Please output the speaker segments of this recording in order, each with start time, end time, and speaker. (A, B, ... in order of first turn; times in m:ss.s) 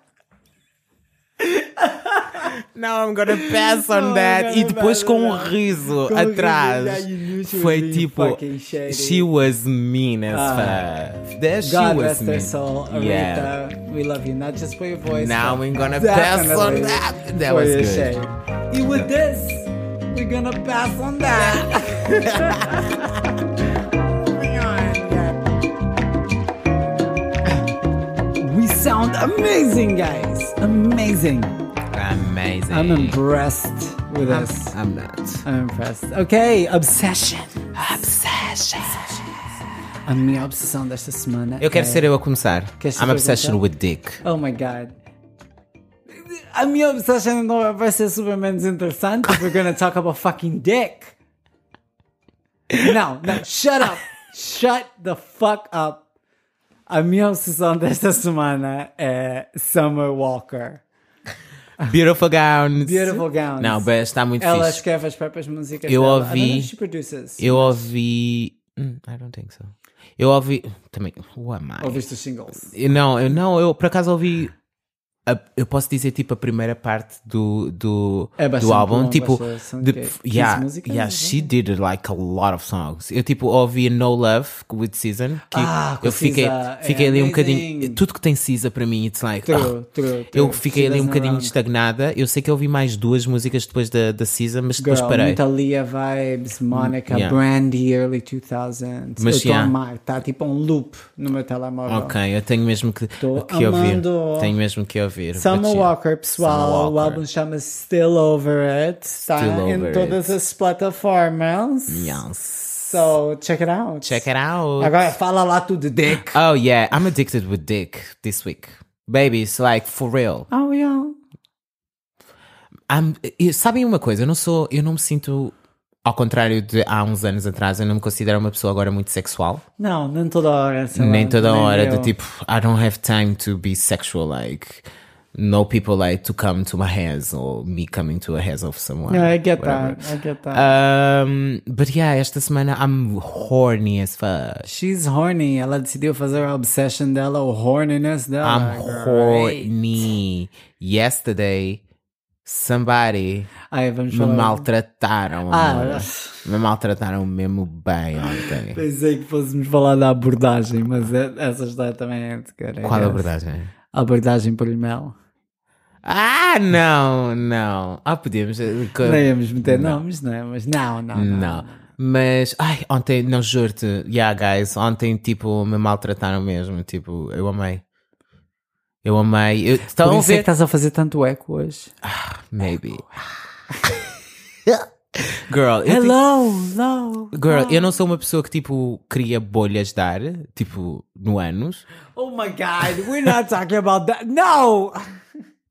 0:01.5-0:02.5 A
0:02.3-0:13.5 B
0:03.3-0:09.3 A
0:10.3-0:10.8 A
0:11.6-0:25.6 A
0:15.1-0:18.1 B
0:22.2-0:23.0 B
0:28.4-0:31.5 A
0:31.9-0:33.2 B
0:32.7-0:34.8 A
0:34.2-0:35.4 B
0:35.4-0:37.8 A
0:37.7-0:39.2 B
0:40.1-0:42.1 A
0:41.6-0:44.2 B
0:42.8-0:43.6 A
0:44.2-0:44.9 A
0:46.2-0:51.2 A
0:52.8-0:56.1 A
0:56.9-1:00.8 A
1:01.8-1:04.8 B
1:02.8-1:07.8 A
1:05.9-1:06.7 B
1:07.4-1:12.0 B
1:11.8-1:12.7 A
1:12.6-1:14.5 B
1:15.2-1:29.7 B
1:18.4-1:21.4 A
1:25.5-1:28.0 A
1:29.4-1:31.5 A
1:30.3-1:35.4 B
1:34.8-1:42.2 A
1:36.7-1:37.4 B
1:39.2-1:39.7 B
1:41.9-1:47.2 B
1:43.2-1:44.6 A
1:45.3-1:52.2 A
1:49.3-1:50.3 B
1:51.9-1:53.1 B
1:52.8-1:54.2 A
1:54.0-1:54.9 B
1:54.8-1:56.4 A
1:56.1-2:00.5 B
2:00.5-2:01.2 A
2:02.9-2:05.5 B
2:06.0-2:09.6 B
2:09.8-2:12.1 A
2:10.9-2:20.0 B
2:19.1-2:20.7 A
2:20.5-2:24.6 B
2:24.6-2:29.7 A
2:28.4-2:31.8 B
2:32.4-2:33.5 B
2:33.7-2:34.7 A
2:34.1-2:38.8 B
2:35.5-2:36.4 A
2:38.3-2:43.3 A
2:42.8-2:43.7 B
2:43.9-2:45.2 A
2:46.0-2:50.0 B
2:49.0-2:51.8 A
2:51.1-2:57.8 B
2:59.0-3:00.5 B
3:00.0-3:01.9 A
3:02.0-3:03.1 B
3:04.6-3:06.2 B
3:05.8-3:07.9 A
3:07.3-3:11.8 B
3:12.1-3:15.1 A